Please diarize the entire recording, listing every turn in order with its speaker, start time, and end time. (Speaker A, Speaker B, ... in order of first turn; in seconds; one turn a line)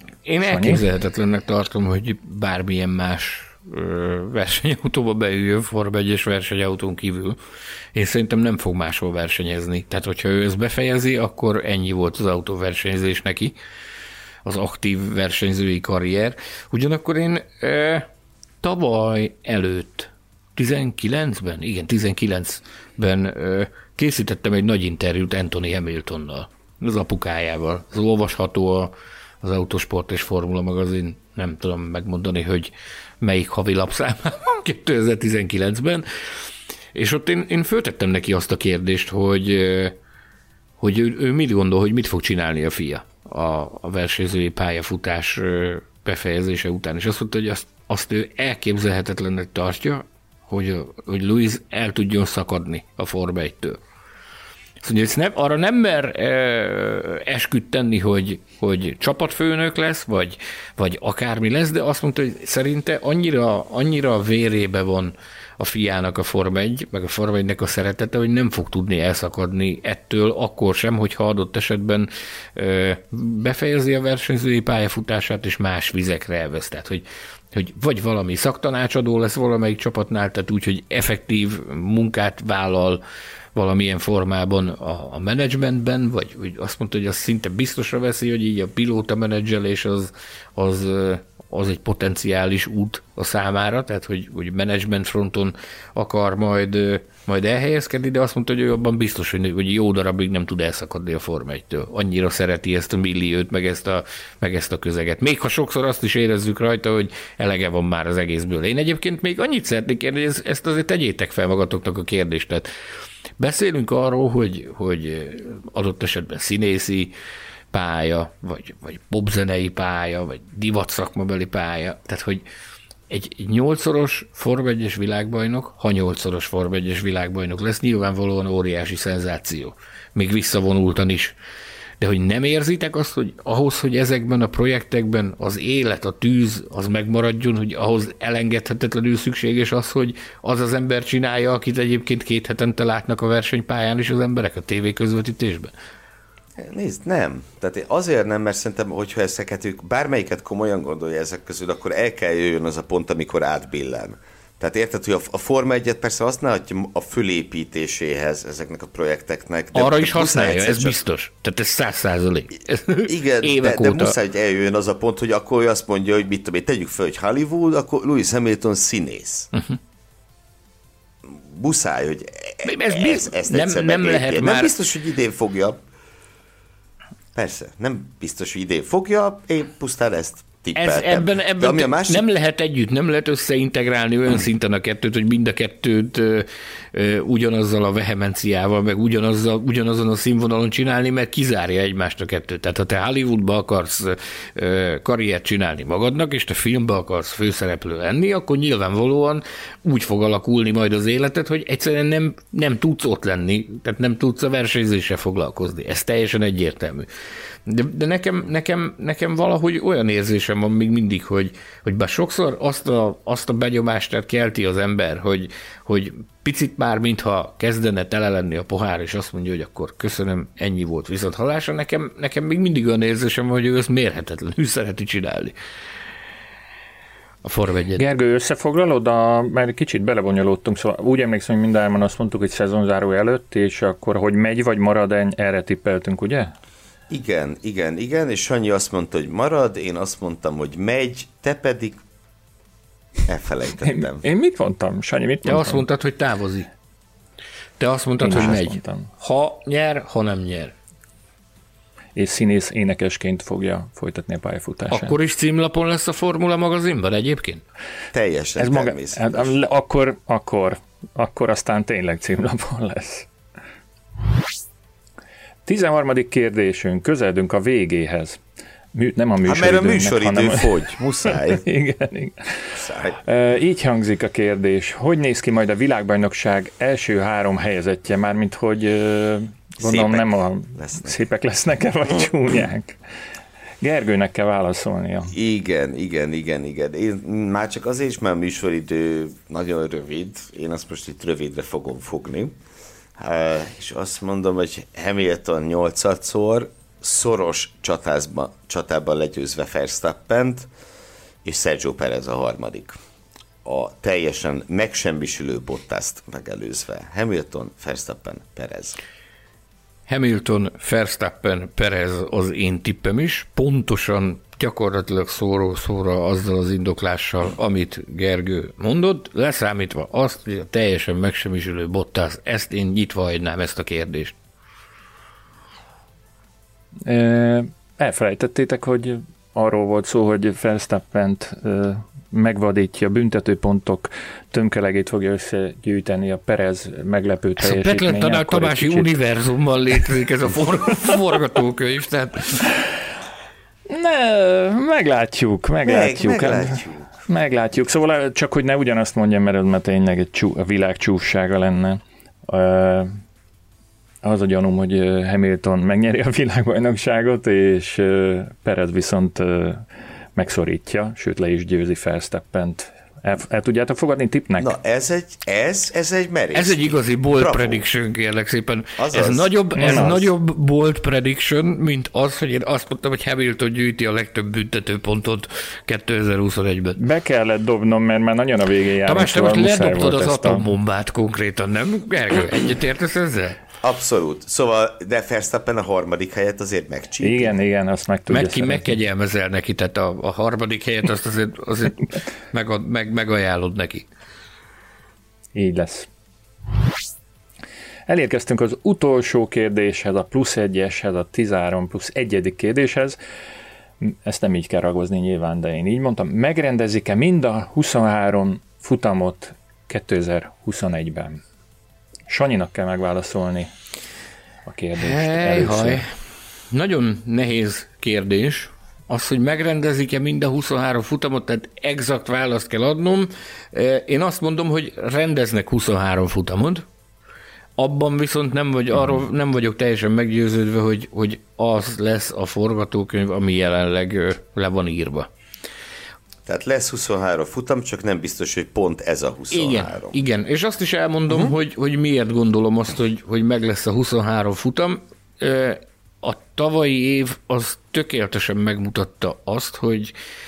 Speaker A: 0.2-7.4
Speaker B: 0.4-0.8
Speaker A: 7.9-13.5
Speaker A: 14.4-18.1
Speaker A: 18.6-36.0
Speaker A: 36.9-39.9
Speaker A: 40.8-53.8
Speaker A: 54.8-83.0
Speaker A: 83.5-112.7
Speaker A: 113.4-117.1
Speaker A: 117.7-122.4
Speaker A: 123.1-131.3
Speaker A: 132.0-145.7
Speaker C: 146.6-161.0
Speaker A: 159.7-164.2
Speaker C: 163.1-169.5
Speaker C: 171.2-175.8
Speaker A: 172.6-174.7
Speaker C: 177.3-182.2
Speaker A: 180.8-207.1
Speaker A: 207.7-225.5
Speaker A: 227.4-228.0
Speaker B: 228.0-236.5
Speaker C: 237.1-242.0
Speaker C: 243.2-244.2
Speaker B: 243.8-245.8
Speaker A: 245.4-246.7
Speaker A: 247.8-250.7
Speaker B: 248.2-249.1
Speaker B: 252.2-255.1
Speaker A: 254.9-257.6
Speaker C: 258.1-259.5
Speaker B: 258.6-263.3
Speaker B: 265.6-268.4
Speaker B: 268.9-283.0
Speaker C: 269.4-271.6
Speaker C: 272.7-273.2
Speaker C: 279.8-281.2
Speaker B: 283.8-285.3
Speaker C: 285.3-292.5
Speaker C: 293.2-300.7
Speaker C: 301.4-303.0
Speaker C: 303.6-309.0
Speaker A: 310.1-324.3
Speaker B: 327.1-339.1
Speaker A: 337.6-342.6
Speaker B: 343.9-353.2
Speaker C: 345.9-347.1
Speaker B: 354.2-364.7
Speaker C: 364.6-367.8
Speaker A: 366.5-377.0
Speaker C: 369.0-370.3
Speaker B: 369.8-370.1
Speaker B: 377.0-380.6
Speaker A: 379.1-383.6
Speaker C: 383.8-387.6
Speaker B: 387.2-388.9
Speaker A: 388.3-394.1
Speaker B: 395.5-396.1
Speaker B: 398.1-403.2
Speaker B: 404.0-411.4
Speaker B: 412.3-413.7
Speaker B: 414.6-416.1
Speaker A: 414.9-416.1
Speaker A: 416.7-426.8
Speaker A: 427.8-435.3
Speaker C: 436.5-440.2
Speaker A: 439.5-450.1